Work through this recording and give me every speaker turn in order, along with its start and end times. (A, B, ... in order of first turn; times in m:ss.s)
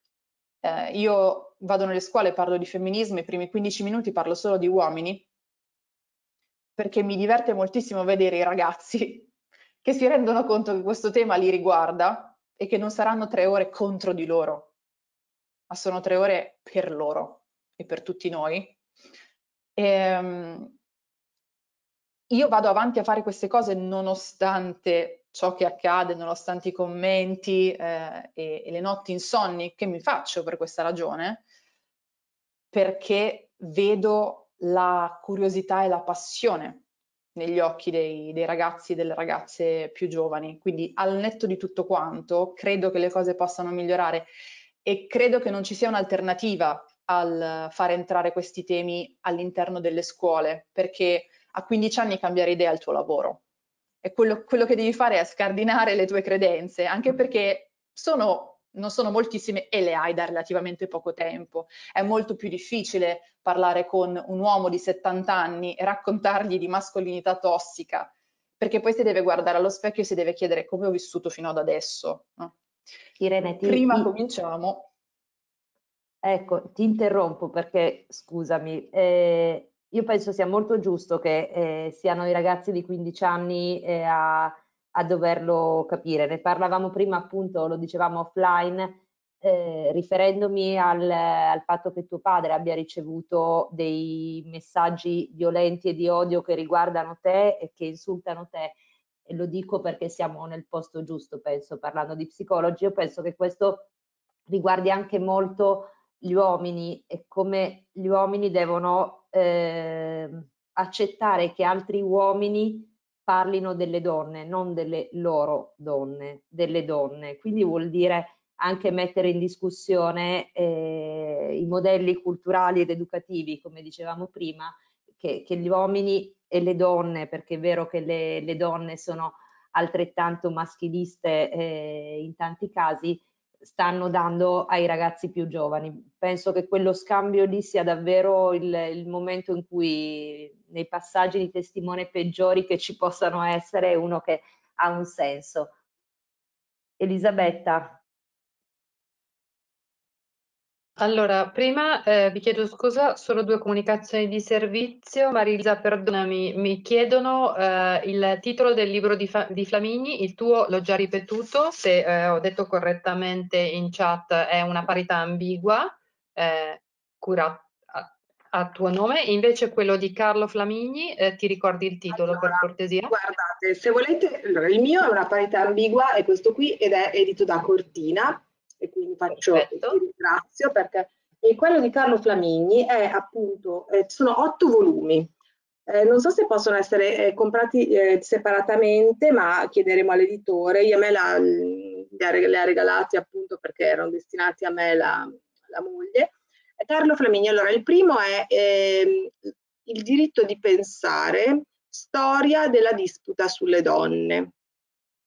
0:00.6-0:05.2 A
0:06.8-0:09.3 A
0:09.8-0:14.7 A
0:15.7-0:18.8 A
0:19.8-0:20.7 A
0:22.3-0:31.4 A
0:32.7-0:36.8 A
0:37.3-0:44.3 A
0:44.8-0:53.4 A
0:54.0-1:12.5 A
1:13.2-1:14.1 B
1:13.6-1:14.9 A
1:16.2-1:43.9 B
1:44.5-2:25.7 B
2:27.0-2:28.0 B
2:31.0-2:53.1 C
2:52.1-3:05.3 D
2:59.3-3:00.0 C
3:05.9-3:19.3 D
3:19.8-3:24.5 D